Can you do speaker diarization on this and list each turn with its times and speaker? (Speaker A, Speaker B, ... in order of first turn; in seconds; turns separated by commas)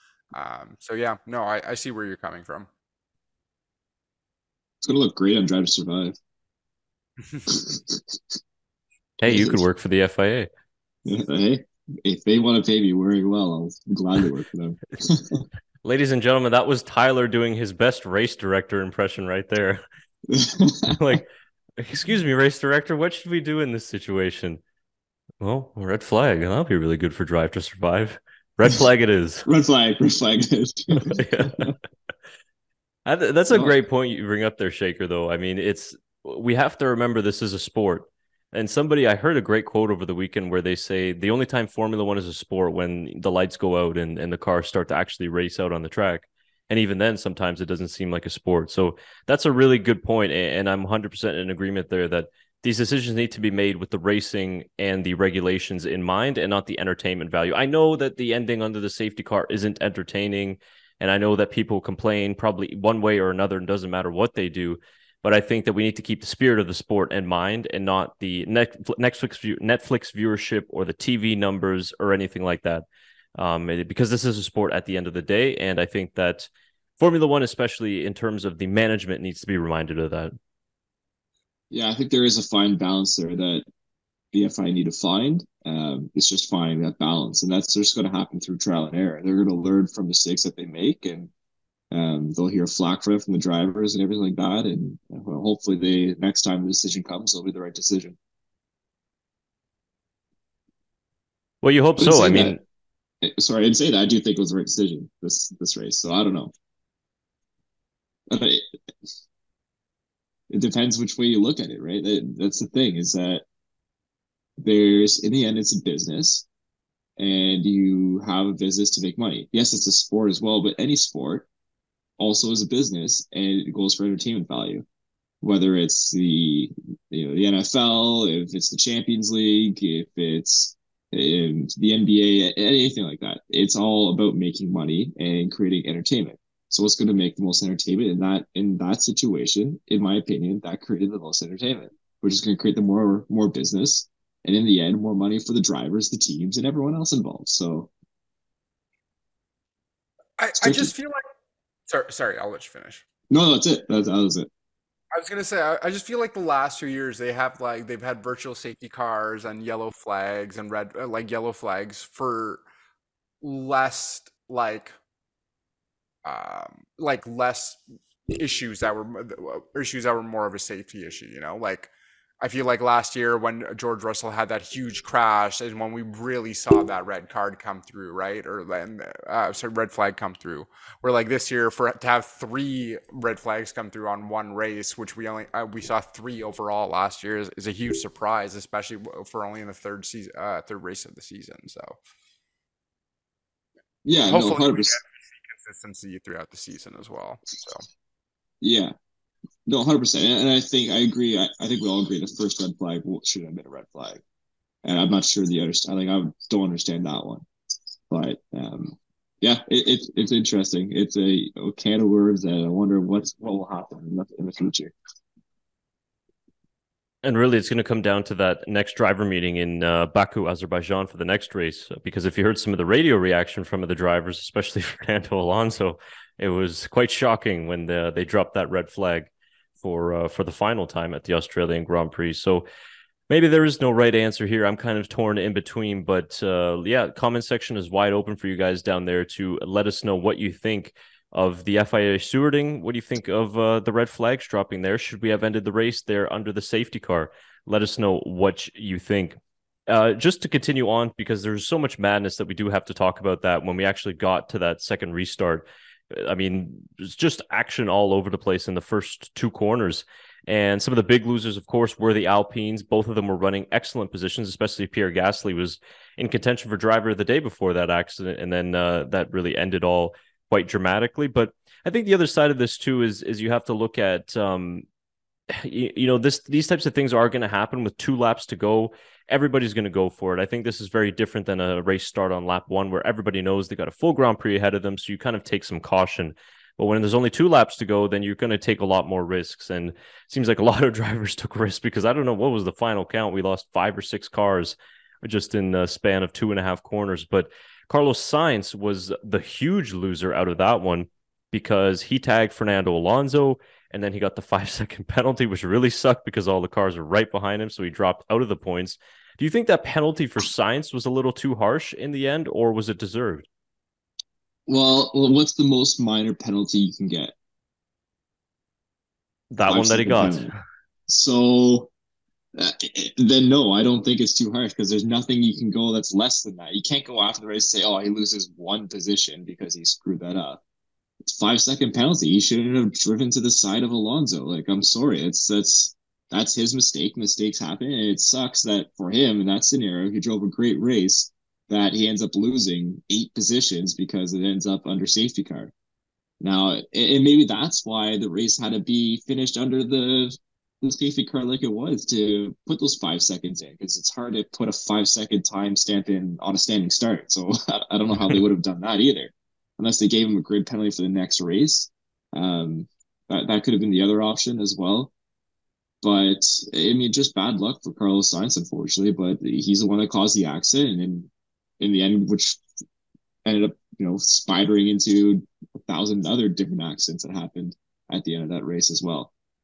Speaker A: 0.3-2.7, Speaker B: 4.8-6.2, Speaker B: 7.5-8.2, Speaker C: 9.2-10.5, Speaker B: 9.2-9.6, Speaker B: 11.1-15.4, Speaker C: 15.8-19.8, Speaker B: 20.3-21.2, Speaker C: 20.9-24.6, Speaker C: 25.4-29.4, Speaker B: 29.4-31.7, Speaker C: 31.1-31.7, Speaker C: 33.1-72.8, Speaker C: 73.4-80.3, Speaker B: 81.7-83.6, Speaker B: 84.3-91.3, Speaker B: 91.9-98.2, Speaker C: 101.6-102.6, Speaker B: 102.0-102.6, Speaker B: 103.2-106.5, Speaker B: 108.3-108.6, Speaker B: 110.5-113.4, Speaker B: 114.6-116.5, Speaker B: 117.2-121.5, Speaker B: 122.2-124.8, Speaker B: 125.4-147.9, Speaker A: 150.4-151.2, Speaker B: 150.6-150.9, Speaker A: 151.9-153.0, Speaker B: 153.3-154.5, Speaker A: 155.1-162.6, Speaker A: 163.4-164.9, Speaker A: 166.2-192.0, Speaker B: 194.1-194.9, Speaker A: 194.2-197.8, Speaker B: 198.6-198.9, Speaker B: 199.7-204.2, Speaker B: 204.8-207.4, Speaker B: 208.1-214.9, Speaker C: 217.2-232.7, Speaker C: 233.3-274.9, Speaker C: 275.5-313.4, Speaker B: 314.7-317.4, Speaker C: 319.5-320.6, Speaker B: 319.6-320.5, Speaker B: 321.1-321.9, Speaker B: 322.6-330.6, Speaker B: 331.2-345.7, Speaker B: 346.4-365.1, Speaker B: 366.0-372.6, Speaker B: 373.4-379.3